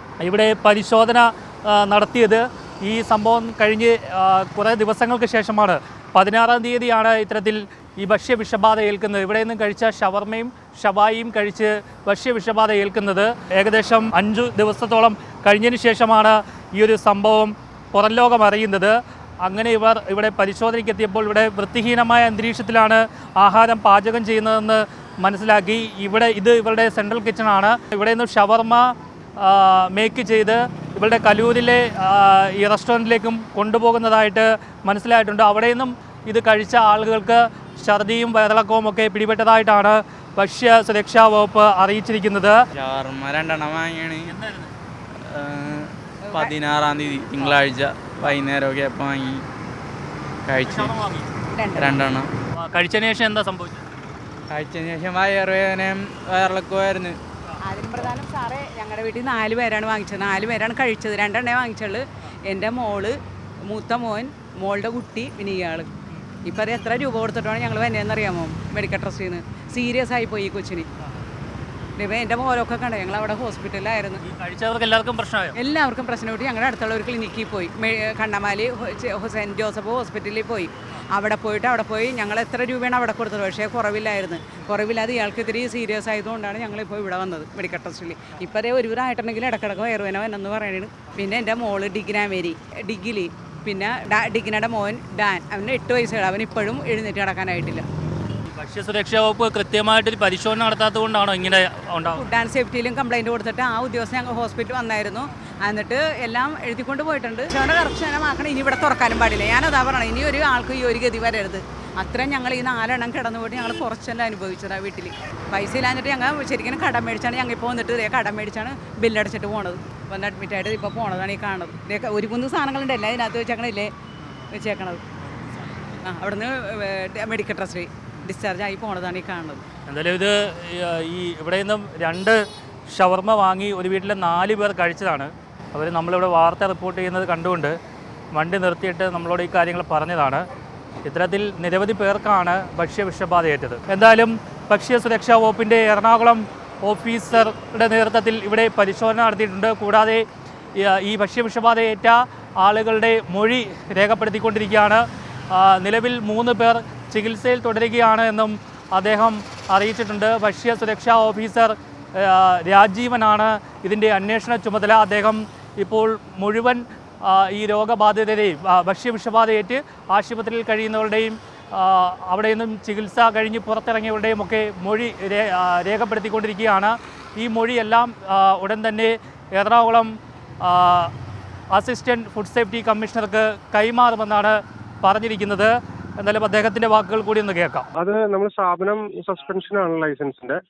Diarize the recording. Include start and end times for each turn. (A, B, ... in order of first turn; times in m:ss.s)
0:00.2-0:42.6 A
0:42.7-0:44.3 B
0:44.2-0:44.7 A
0:45.2-0:49.5 B
0:46.2-0:47.6 C
0:50.4-0:51.0 B
0:50.6-0:51.3 A
0:51.5-0:52.0 C
0:51.7-0:52.3 B
0:52.5-0:53.8 A
0:54.5-0:57.2 B
0:57.6-1:03.2 C
1:03.7-1:05.9 C
1:06.4-1:10.9 C
1:12.0-1:14.2 C
1:14.2-1:15.5 A
1:15.5-1:37.8 C
1:38.5-1:42.2 A
1:42.1-2:03.9 C
2:04.5-2:05.0 C
2:06.0-2:09.6 C
2:09.9-2:12.4 A
2:12.9-2:17.7 A
2:18.3-2:20.4 A
2:21.0-2:30.2 A
2:30.8-3:01.1 A
3:01.7-3:07.8 A
3:07.9-3:10.6 D